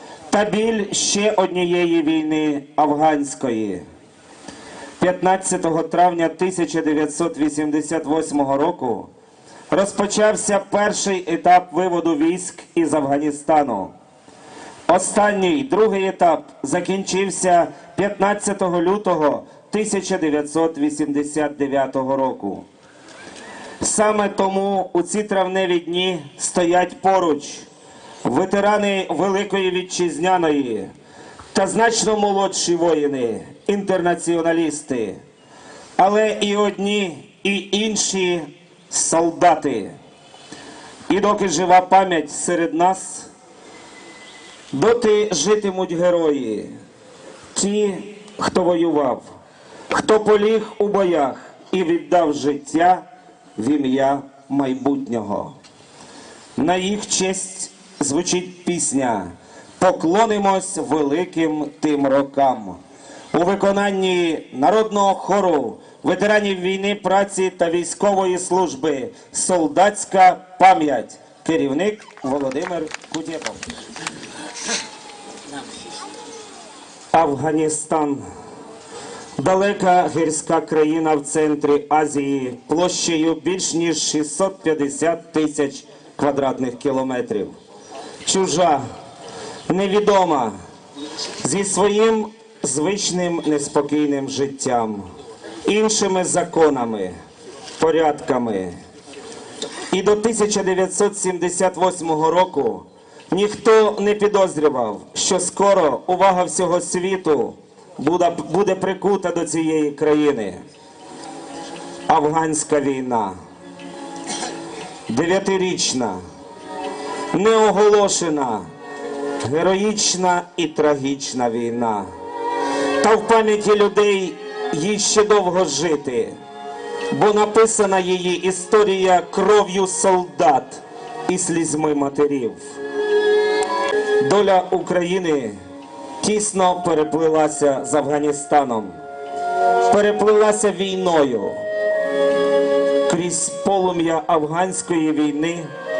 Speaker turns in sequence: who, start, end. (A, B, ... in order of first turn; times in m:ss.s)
0:00.3-0:03.8 A
0:05.0-0:09.1 A
0:09.7-0:13.9 A
0:14.9-0:22.6 A
0:23.8-0:27.7 A
0:28.2-0:30.9 A
0:31.5-0:35.2 A
0:36.0-0:39.9 A
0:41.1-0:43.3 A
0:44.7-0:46.7 A
0:47.5-0:49.2 A
0:49.9-0:53.0 A
0:53.6-0:55.6 A
0:56.6-1:02.8 A
1:03.3-1:13.6 A
1:17.1-1:18.2 A
1:19.4-1:27.6 A
1:28.2-1:28.8 A
1:29.7-1:30.6 A
1:31.4-1:35.1 A
1:35.6-1:37.2 A
1:37.8-1:38.8 A
1:39.9-1:50.6 A
1:52.1-1:53.4 A
1:55.1-1:56.2 A
1:57.3-1:58.7 A
1:59.4-2:02.1 A
2:03.0-2:06.4 A
2:07.1-2:12.6 A
2:14.2-2:15.6 A
2:16.2-2:19.0 A
2:19.8-2:21.6 A
2:23.1-2:25.7 A